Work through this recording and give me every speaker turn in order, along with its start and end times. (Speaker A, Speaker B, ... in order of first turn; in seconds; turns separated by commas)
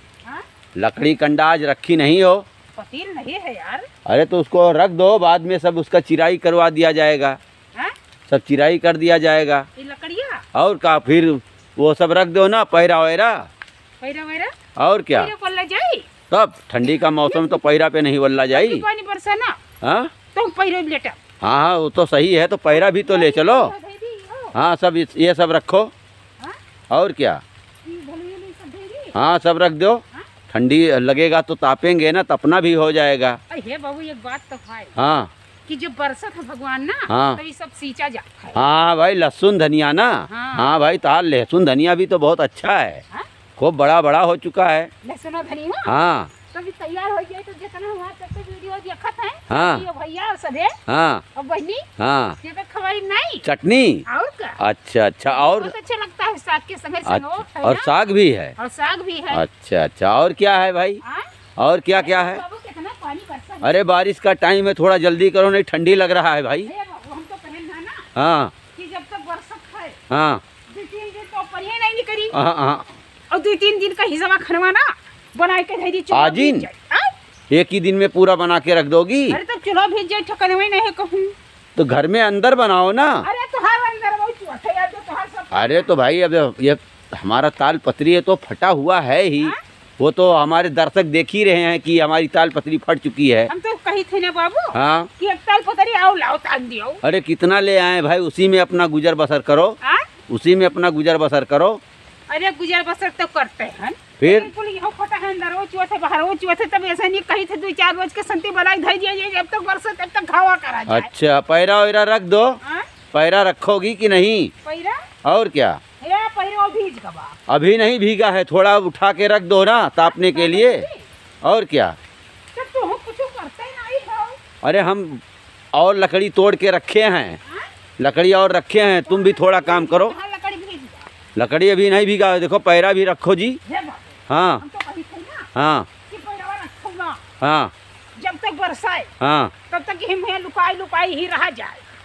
Speaker A: 0.8-2.5, Speaker B: 2.8-3.9, Speaker A: 4.0-7.4, Speaker A: 8.3-9.7, Speaker B: 9.8-10.4, Speaker A: 10.5-13.5, Speaker B: 14.0-14.5, Speaker A: 14.8-15.3, Speaker B: 15.1-16.1, Speaker A: 16.3-18.8, Speaker B: 16.8-17.6, Speaker B: 18.5-19.6, Speaker A: 19.8-20.1, Speaker B: 20.3-21.2, Speaker A: 21.4-23.7, Speaker B: 22.7-24.6, Speaker A: 24.5-25.9, Speaker A: 26.9-27.4, Speaker B: 27.8-29.2, Speaker A: 29.1-33.4, Speaker B: 33.5-34.9, Speaker A: 35.0-35.3, Speaker B: 35.6-38.6, Speaker A: 37.1-37.4, Speaker A: 38.5-43.0, Speaker B: 40.3-40.7, Speaker A: 43.6-44.9, Speaker B: 45.0-45.9, Speaker A: 45.9-46.3, Speaker B: 46.5-50.8, Speaker A: 49.5-49.8, Speaker A: 50.9-51.2, Speaker B: 51.3-51.8, Speaker A: 52.0-52.4, Speaker B: 52.4-53.5, Speaker A: 53.4-54.0, Speaker B: 54.1-54.6, Speaker A: 54.6-55.7, Speaker B: 55.3-57.9, Speaker A: 57.0-58.5, Speaker B: 58.6-59.4, Speaker A: 59.3-61.0, Speaker A: 61.6-62.4, Speaker B: 61.9-63.8, Speaker A: 63.6-66.7, Speaker B: 66.6-68.1, Speaker A: 68.2-68.5, Speaker B: 68.7-70.0, Speaker A: 70.1-70.4, Speaker B: 70.7-72.3, Speaker A: 72.3-72.9, Speaker B: 73.3-77.1, Speaker A: 76.1-76.7, Speaker A: 77.5-79.4, Speaker B: 79.3-81.3, Speaker A: 81.8-83.3, Speaker B: 83.2-85.9, Speaker A: 85.5-93.5, Speaker B: 93.5-97.0, Speaker A: 94.7-95.1, Speaker A: 97.0-99.8, Speaker B: 99.8-100.1, Speaker A: 100.3-101.8, Speaker B: 102.3-111.1, Speaker A: 104.2-104.5, Speaker A: 110.9-112.6, Speaker B: 112.6-112.9, Speaker A: 113.1-114.5, Speaker B: 114.6-115.0, Speaker A: 115.2-115.8, Speaker B: 116.0-117.4, Speaker A: 117.5-120.8, Speaker B: 120.0-121.0, Speaker A: 121.4-122.0, Speaker B: 122.5-124.4, Speaker A: 124.6-125.2, Speaker A: 125.7-127.4, Speaker A: 128.0-130.2, Speaker B: 129.1-131.1, Speaker A: 131.3-133.6, Speaker B: 133.7-135.5, Speaker A: 134.3-134.6, Speaker A: 135.5-135.9, Speaker B: 136.1-137.2, Speaker A: 137.4-137.7, Speaker B: 138.2-139.1, Speaker A: 139.2-139.5, Speaker B: 139.7-141.9